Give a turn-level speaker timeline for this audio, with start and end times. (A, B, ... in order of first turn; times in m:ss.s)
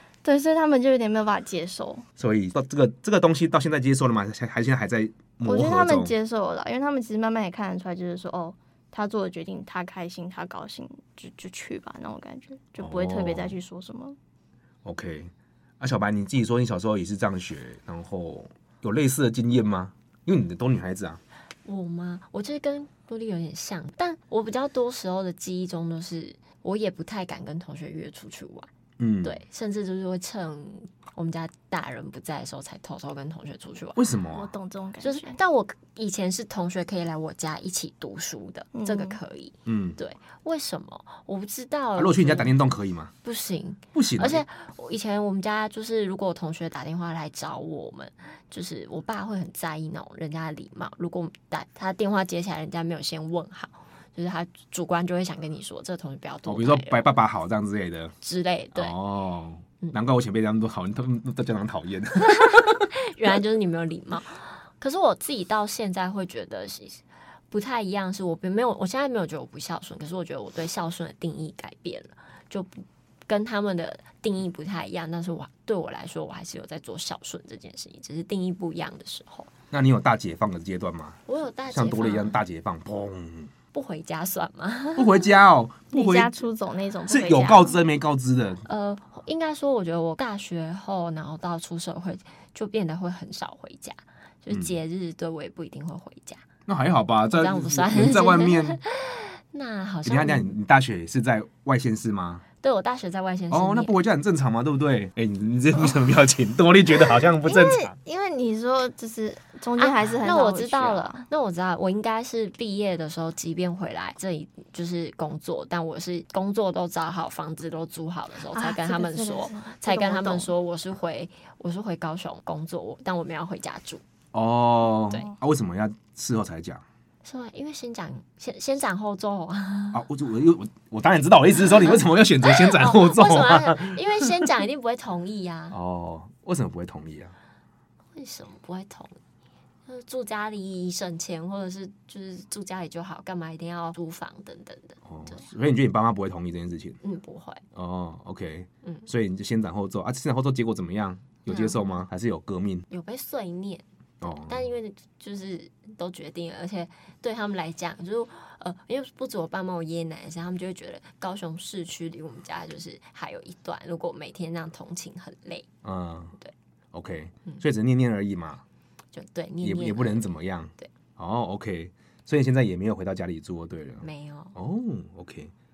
0:00.2-0:02.0 A
0:02.2-0:06.1 B
0:05.4-0:14.2 A
0:12.8-0:13.5 B
0:14.8-0:21.2 B
0:21.6-0:28.7 C
0:29.0-0:29.4 B
0:29.2-0:34.0 C
0:34.0-0:34.5 B
0:34.3-0:35.4 A
0:35.0-0:42.6 C
0:38.7-0:39.2 A
0:39.6-0:40.0 B
0:42.0-0:43.1 B
0:43.2-0:57.2 C
0:43.9-0:44.4 B
0:56.4-0:58.1 B
0:58.2-0:58.9 C
0:58.7-1:02.8 B
1:02.3-1:07.0 C
1:07.5-1:19.5 C
1:19.7-1:23.5 B
1:21.3-1:22.4 C
1:23.7-1:25.2 C
1:25.0-1:26.3 B
1:25.9-1:27.7 A
1:27.1-1:28.6 B
1:28.6-1:36.4 C
1:34.5-1:34.8 B
1:36.7-1:38.8 B
1:37.3-1:40.5 C
1:40.0-1:42.4 B
1:42.6-1:43.9 C
1:43.5-1:47.9 B
1:47.4-1:51.2 A
1:49.8-2:04.0 C
1:58.5-2:00.5 A
2:04.3-2:06.8 B
2:07.2-2:10.0 C
2:09.9-2:14.4 B
2:11.9-2:15.8 C
2:15.7-2:17.3 B
2:18.1-2:19.1 C
2:19.9-2:25.5 C
2:25.1-2:27.0 B
2:27.0-2:27.6 C
2:27.7-2:32.9 B
2:31.4-2:31.8 C
2:32.9-2:45.6 C
2:34.2-2:34.7 B
2:45.8-2:46.3 B
2:46.9-2:48.6 B
2:49.1-2:50.9 C
2:49.6-2:55.5 B
2:54.0-2:54.5 C